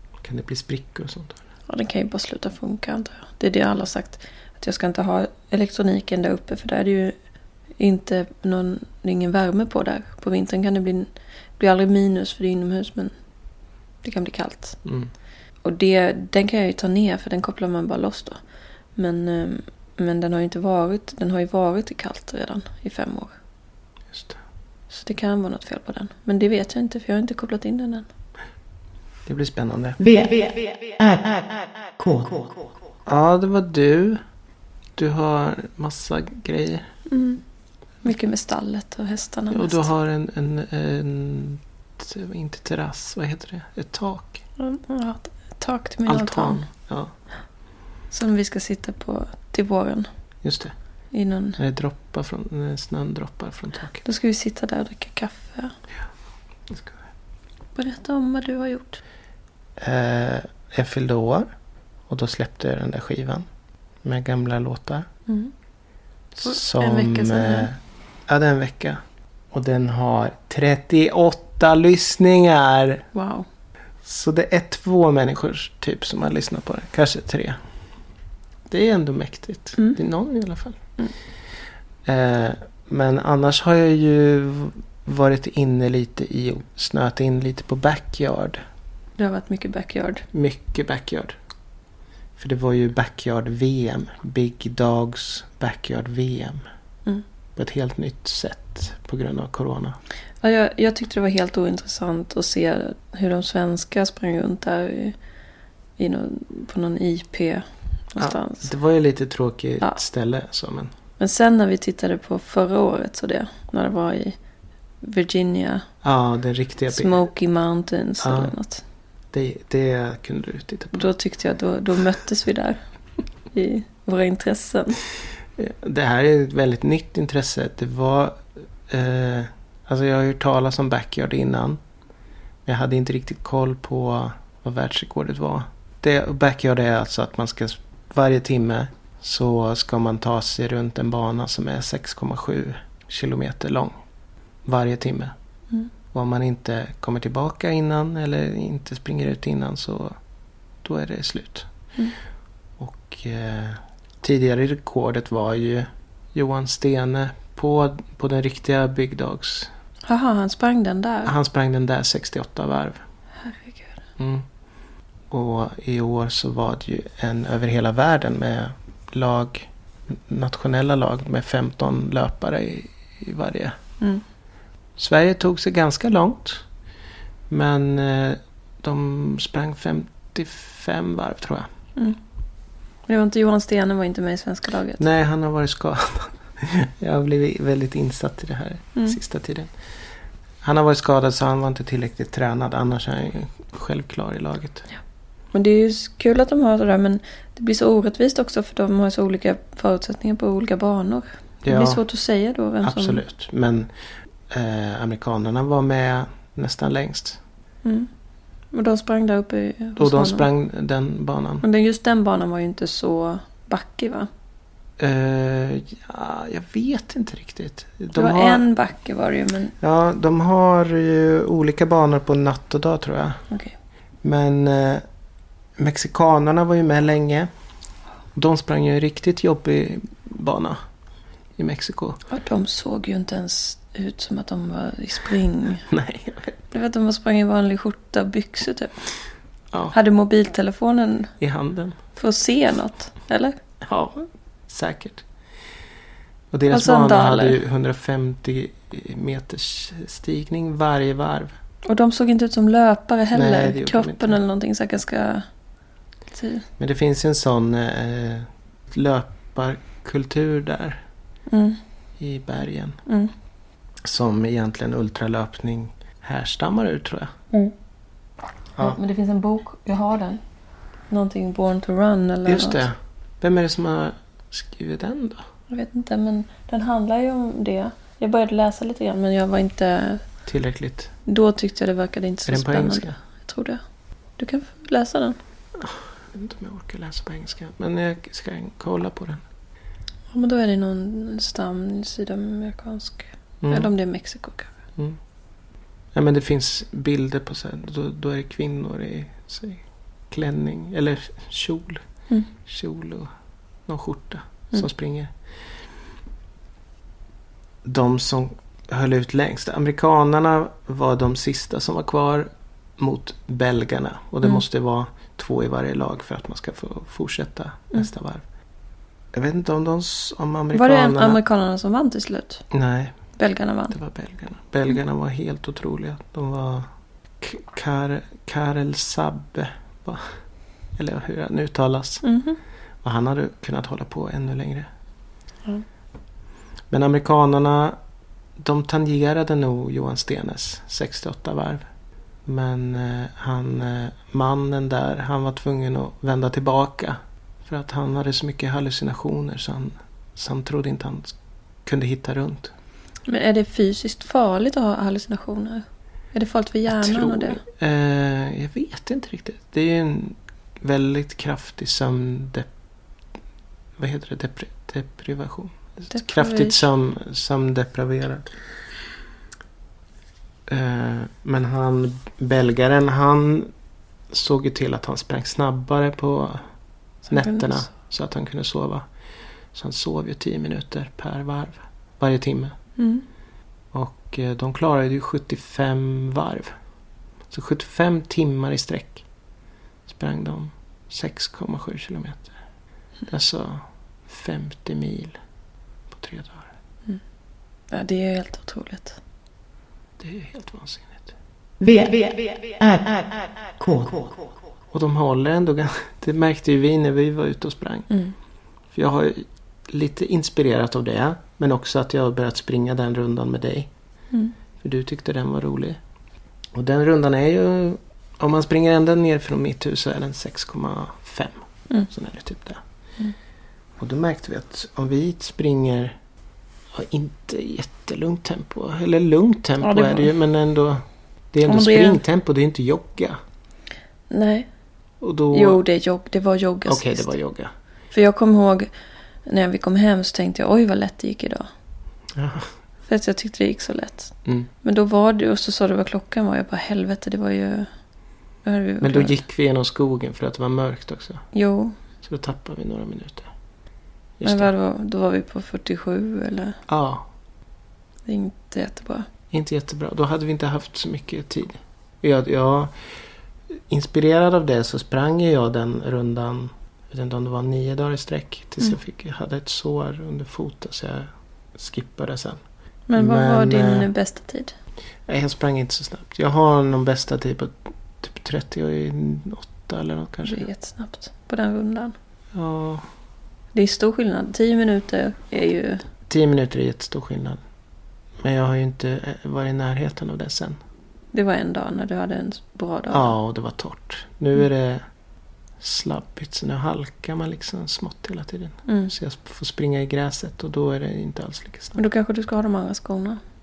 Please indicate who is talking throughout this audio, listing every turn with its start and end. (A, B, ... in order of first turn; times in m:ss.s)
0:00.2-0:01.4 A
0:01.7-0:07.1 B
0:07.8-0:13.1 B
0:14.0-0:14.8 B
0:14.8-0:15.1 A
0:15.6-0:18.4 B
0:19.0-0:23.3 B
0:24.1-0:24.4 A
0:24.9-0:28.1 B
0:29.2-0:30.0 A
0:30.0-0:32.7 C
0:33.0-0:34.2 A
0:35.0-0:36.9 A
0:37.1-0:37.4 B
0:38.0-0:39.9 B
0:39.5-0:44.4 A
0:44.6-0:46.6 B
0:46.0-0:47.1 A
0:48.1-0:50.1 B
0:50.4-0:50.7 A
0:51.1-0:51.6 B
0:51.6-0:54.0 A
0:54.0-0:55.7 B
0:56.7-0:57.0 A
0:57.7-0:59.0 B
0:59.8-1:01.5 A
1:02.1-1:03.4 A
1:04.0-1:05.1 A
1:05.3-1:05.5 B
1:06.4-1:09.0 A
1:06.4-1:07.7 B
1:09.5-1:13.0 A
1:13.1-1:13.4 B
1:14.0-1:17.6 A
1:18.7-1:20.8 A
1:22.0-1:28.6 A
1:29.2-1:30.2 B
1:30.3-1:31.4 A
1:32.4-1:36.6 A
1:37.6-1:40.0 A
1:40.4-1:45.2 B
1:46.0-1:48.7 B
1:48.2-1:50.9 A
1:51.2-1:54.4 B
1:55.0-1:55.8 B
1:56.0-1:57.2 A
1:56.9-1:58.8 B
1:58.2-1:58.5 A
1:59.3-2:01.1 A
2:00.9-2:02.8 B
2:03.5-2:05.0 B
2:05.6-2:11.8 A
2:12.6-2:24.0 A
2:24.6-2:25.3 A
2:26.1-2:30.2 A
2:30.8-2:31.7 A
2:32.8-2:39.7 A
2:40.1-2:41.3 B
2:41.2-2:43.0 A
2:43.4-2:44.0 B
2:44.2-2:44.4 A
2:45.3-2:53.8 A
2:55.0-2:56.6 A
2:57.5-3:01.7 A
3:03.1-3:05.0 B
3:05.0-3:09.7 A
3:10.6-3:14.8 A
3:15.5-3:23.2 B
3:21.6-3:22.0 A
3:22.8-3:23.9 A
3:24.5-3:27.4 A
3:27.8-3:28.1 B
3:28.7-3:30.5 B
3:30.0-3:31.6 A
3:31.6-3:34.3 B
3:35.0-3:38.6 A
3:38.1-3:39.7 B
3:39.8-3:43.4 A
3:43.5-3:43.7 B
3:44.2-3:45.0 A
3:45.8-3:47.5 A
3:48.3-3:50.8 A
3:51.6-3:52.2 A
3:52.3-3:55.8 B
3:55.9-3:56.6 A
3:56.7-3:58.9 B
3:59.9-4:01.3 B
4:01.4-4:02.0 A
4:02.1-4:03.6 B
4:03.8-4:05.2 A
4:06.5-4:11.5 A
4:06.7-4:07.6 B
4:11.8-4:15.4 B
4:13.3-4:14.4 A
4:16.3-4:16.6 B
4:16.8-4:21.0 A
4:21.5-4:21.8 B
4:22.2-4:23.0 A
4:23.0-4:23.3 B
4:24.0-4:27.3 A
4:28.8-4:30.4 B
4:31.1-4:32.8 B
4:32.4-4:35.4 A
4:35.7-4:40.2 B
4:40.4-4:41.1 A
4:41.2-4:43.8 B
4:42.4-4:43.2 A
4:44.4-4:45.4 B
4:45.8-4:49.4 A
4:50.3-4:54.7 B
4:53.6-4:53.9 A
4:56.1-5:02.0 A
5:02.6-5:03.3 A
5:03.8-5:05.3 A
5:07.8-5:18.4 A
5:19.3-5:21.4 A
5:20.7-5:22.6 B
5:22.7-5:23.1 A
5:23.4-5:23.9 B
5:23.9-5:26.9 A
5:27.4-5:30.3 A
5:31.0-5:32.2 A
5:32.2-5:32.6 B
5:33.0-5:34.9 A
5:36.9-5:38.0 A
5:38.6-5:41.8 A
5:42.4-5:52.7 A
5:53.3-5:57.6 B
5:56.9-6:02.7 A
6:04.0-6:08.5 A
6:06.1-6:06.8 B
6:10.7-6:13.7 A
6:14.3-6:16.6 A
6:17.2-6:17.9 B
6:17.3-6:19.0 A
6:19.7-6:22.7 A
6:23.0-6:23.2 B
6:23.9-6:26.7 A
6:27.5-6:29.2 A
6:30.1-6:32.5 A
6:33.3-6:35.4 A
6:36.1-6:36.7 A
6:37.9-6:39.2 B
6:40.2-6:41.3 A
6:41.8-6:44.5 C
6:44.9-6:48.1 A
6:48.1-6:48.3 B
6:48.9-6:53.9 A
6:54.8-6:56.0 A
6:56.7-7:02.8 A
7:04.0-7:06.2 A
7:06.9-7:13.4 A
7:09.8-7:10.3 B
7:11.6-7:12.2 B
7:14.3-7:14.7 B
7:15.2-7:15.8 A
7:15.5-7:17.3 B
7:16.8-7:17.7 A
7:18.1-7:18.9 B
7:19.4-7:21.7 B
7:22.3-7:22.7 A
7:23.1-7:27.9 B
7:28.6-7:29.4 B
7:29.0-7:31.4 A
7:31.5-7:32.0 B
7:32.2-7:33.5 A
7:34.4-7:34.7 A
7:34.4-7:36.8 B
7:36.9-7:37.2 A
7:38.2-7:39.3 B
7:39.5-7:42.9 A
7:43.9-7:52.6 A
7:53.1-7:54.7 B
7:53.2-7:54.1 A
7:55.2-8:00.6 A
8:00.4-8:02.1 B
8:02.5-8:03.0 A
8:03.7-8:06.0 B
8:06.3-8:07.6 A
8:08.4-8:10.8 A
8:11.3-8:13.3 B
8:13.1-8:15.0 A
8:15.8-8:22.0 A
8:18.9-8:19.1 B
8:22.0-8:23.4 B